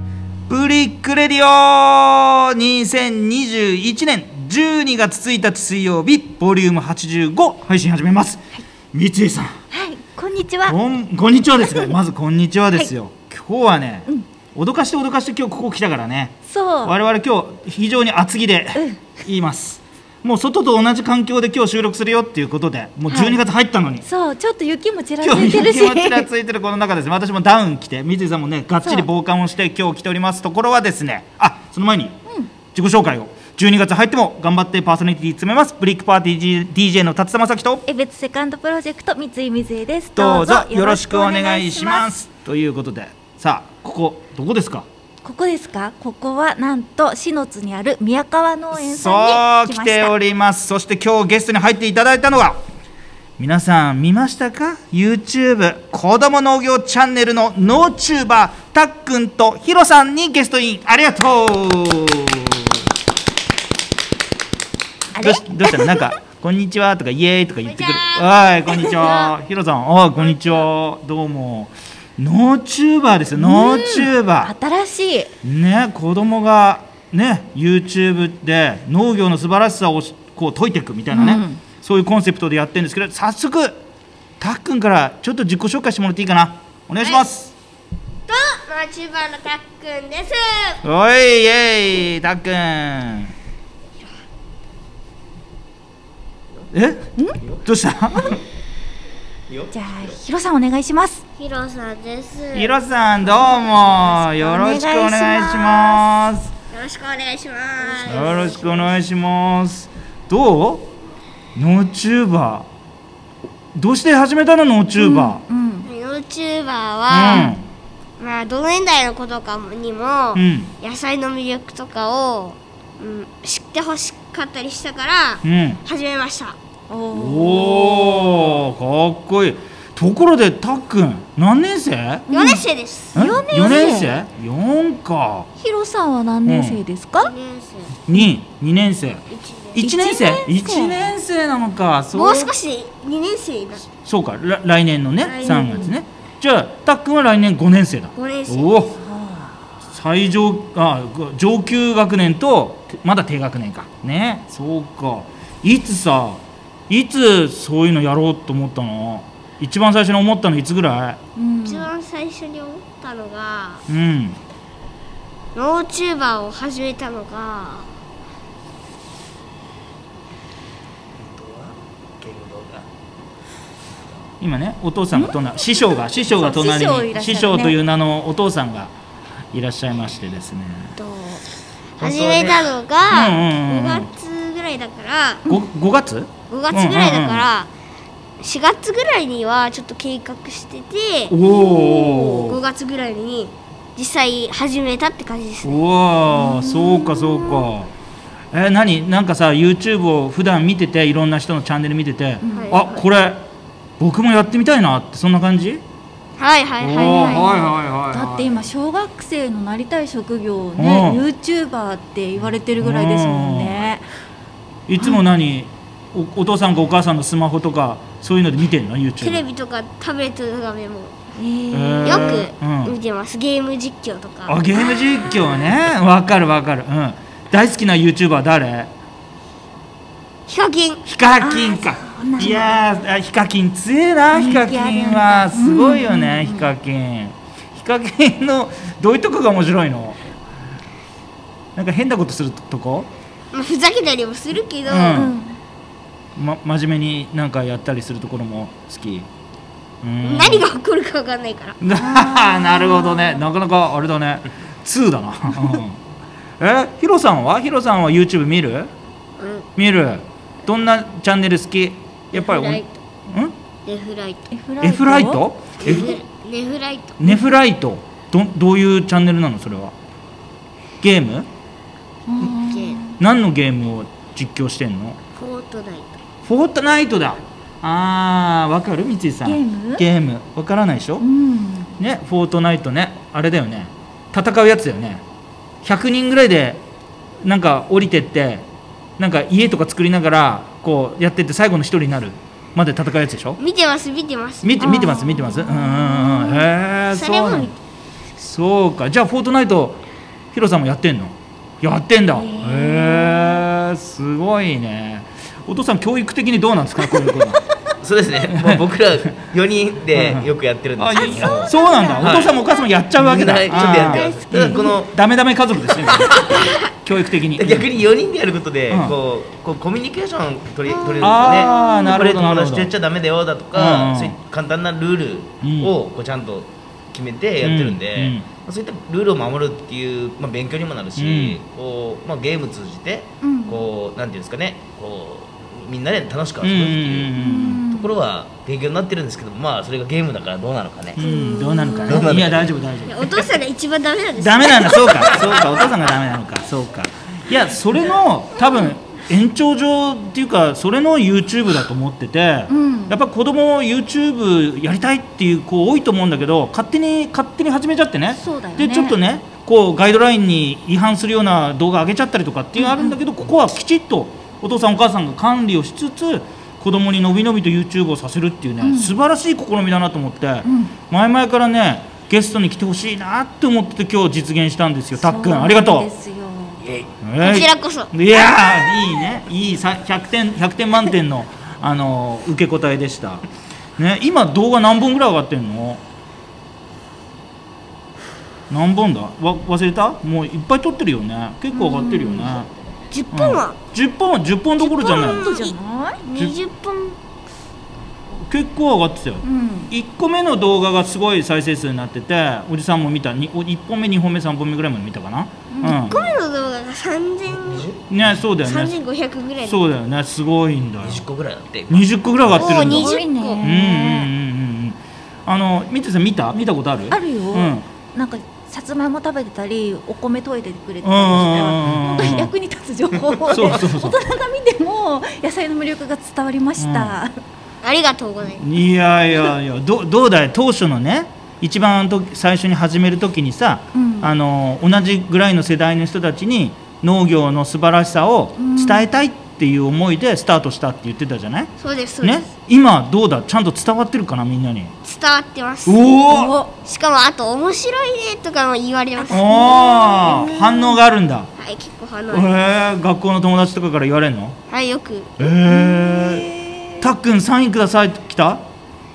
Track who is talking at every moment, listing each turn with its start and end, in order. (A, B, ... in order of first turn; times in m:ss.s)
0:00.5-0:09.5 A
0:09.7-0:10.8 B
0:10.6-0:24.0 A
0:16.4-0:16.9 B
0:18.7-0:19.0 B
0:23.1-0:23.4 B
0:24.0-0:26.3 B
0:25.2-0:32.2 A
0:32.7-0:37.8 A
0:37.8-0:42.1 B
0:40.2-0:44.8 A
0:45.2-0:50.1 B
0:48.7-0:52.6 A
0:53.4-1:02.8 A
1:05.1-1:06.1 B
1:05.2-1:14.5 A
1:07.6-1:09.3 C
1:13.4-1:15.3 B
1:15.4-1:23.8 A
1:21.1-1:21.6 B
1:24.4-1:27.5 A
1:28.3-1:30.8 C
1:30.8-1:33.3 A
1:36.7-1:37.1 A
1:37.6-1:38.4 A
1:39.5-1:39.7 D
1:39.7-1:41.2 B
1:41.4-1:42.7 C
1:42.5-1:46.5 A
1:44.2-1:46.0 B
1:46.7-1:49.0 C
1:48.0-1:50.9 A
1:51.5-1:52.6 A
1:53.7-1:55.4 A
1:55.0-1:55.9 B
1:55.8-1:57.5 C
1:57.1-1:57.6 A
1:57.2-1:57.5 B
1:58.2-2:06.6 C
2:00.3-2:00.7 A
2:05.4-2:05.8 A
2:06.9-2:08.3 B
2:07.1-2:12.3 A
2:12.3-2:13.2 C
2:12.3-2:14.2 B
2:13.1-2:15.5 A
2:15.6-2:17.3 B
2:16.4-2:16.8 A
2:17.2-2:18.0 C
2:18.1-2:19.2 A
2:19.3-2:19.8 C
2:19.7-2:22.5 A
2:19.8-2:21.1 B
2:22.1-2:23.9 C
2:24.0-2:29.0 A
2:25.2-2:25.9 C
2:28.1-2:28.9 C
2:29.0-2:29.5 B
2:29.9-2:41.2 A
2:41.4-2:41.9 B
2:41.6-2:43.8 C
2:43.9-2:44.4 A
2:45.5-2:47.9 C
2:51.2-2:52.9 D
2:54.4-2:58.9 A
2:56.3-2:57.8 B
2:59.5-3:00.9 A
3:01.0-3:01.5 C
3:02.0-3:05.5 C
3:02.0-3:02.7 D
3:03.1-3:04.1 A
3:05.5-3:07.5 A
3:06.5-3:07.7 C
3:08.4-3:15.8 C
3:11.3-3:12.6 A
3:15.6-3:17.9 A
3:16.3-3:17.6 B
3:18.5-3:23.4 A
3:22.4-3:22.7 B
3:22.5-3:23.1 C
3:24.0-3:25.8 A
3:26.4-3:27.6 C
3:26.8-3:28.6 A
3:27.0-3:34.0 B
3:30.8-3:31.3 A
3:32.8-3:33.9 A
3:34.9-3:39.4 A
3:39.2-3:41.1 C
3:41.4-3:42.4 B
3:41.7-3:43.0 A
3:42.0-3:44.6 C
3:44.5-3:48.9 A
3:45.0-3:45.2 B
3:50.5-3:51.0 C
3:51.0-4:00.2 A
3:51.4-3:52.7 B
3:54.3-3:56.7 B
4:01.8-4:03.1 A
4:03.5-4:05.3 C
4:04.8-4:05.4 A
4:05.1-4:05.6 B
4:06.4-4:09.3 A
4:10.0-4:10.7 A
4:10.2-4:11.8 C
4:11.8-4:16.0 A
4:11.9-4:13.4 B
4:16.6-4:18.9 A
4:19.4-4:19.6 C
4:19.8-4:23.5 A
4:22.3-4:23.0 C
4:23.8-4:24.5 C
4:24.5-4:25.4 B
4:24.8-4:26.2 A
4:25.8-4:27.2 C
4:27.2-4:29.9 A
4:31.0-4:31.5 A
4:32.3-4:33.2 B
4:32.5-4:33.0 C
4:33.2-4:35.2 A
4:35.4-4:36.2 C
4:36.4-4:41.2 A
4:39.4-4:40.0 B
4:41.2-4:42.0 B
4:42.0-4:45.2 A
4:45.8-4:46.8 A
4:47.4-4:48.6 A
4:49.2-4:53.6 A
4:53.6-4:55.2 C
4:54.6-4:57.7 A
4:54.8-4:56.7 B
4:57.1-4:57.8 C
4:58.4-5:00.0 A
5:00.5-5:07.6 A
5:02.3-5:03.7 B
5:08.0-5:12.5 D
5:08.5-5:08.8 A
5:10.1-5:17.9 A
5:11.1-5:12.4 B
5:13.2-5:15.1 D
5:13.9-5:14.8 B
5:16.1-5:16.7 D
5:17.6-5:41.2 D
5:18.9-5:19.1 A
5:21.2-5:22.9 A
5:21.2-5:22.2 B
5:23.7-5:24.4 A
5:25.6-5:25.9 A
5:27.6-5:28.5 A
5:31.2-5:31.6 A
5:33.4-5:33.8 B
5:36.6-5:37.8 A
5:37.4-5:38.2 B
5:41.2-5:43.5 A
5:41.2-5:42.1 C
5:41.3-5:42.1 B
5:42.0-5:42.7 D
5:43.0-5:45.6 C
5:44.4-6:16.1 A
5:52.7-5:53.2 B
5:58.4-5:59.2 B
6:02.8-6:03.2 B
6:08.8-6:09.1 B
6:10.6-6:10.9 B
6:15.2-6:16.8 B
6:17.2-6:23.4 A
6:17.4-6:19.1 C
6:24.0-6:26.0 A
6:28.7-6:32.7 A
6:31.7-6:32.6 B
6:33.1-6:33.8 C
6:33.3-6:35.5 A
6:34.8-6:37.2 C
6:34.8-6:36.2 B
6:38.4-6:46.3 A
6:39.4-6:39.9 B
6:45.7-6:46.1 B
6:45.8-6:47.9 C
6:47.5-6:48.4 D
6:48.1-6:49.0 A
6:48.6-6:49.9 C
6:49.6-6:51.2 A
6:51.0-6:52.9 D
6:51.9-6:57.8 A
6:52.5-6:53.6 C
6:52.6-6:54.3 B
6:57.1-7:07.4 B
7:01.0-7:02.5 A
7:03.5-7:04.2 A
7:06.8-7:07.2 A
7:07.8-7:08.7 C
7:08.6-7:21.7 A
7:13.9-7:14.3 B
7:18.6-7:19.1 B
7:21.8-7:22.5 C
7:22.2-7:24.9 A
7:25.0-7:26.0 C
7:25.8-7:26.6 A
7:26.3-7:26.7 B
7:26.8-7:30.4 C
7:29.2-7:31.0 B
7:29.3-7:31.5 A
7:31.6-7:32.5 C
7:32.3-7:34.6 A
7:34.7-7:35.5 C
7:35.4-7:36.5 A
7:35.7-7:37.0 B
7:37.0-7:38.6 A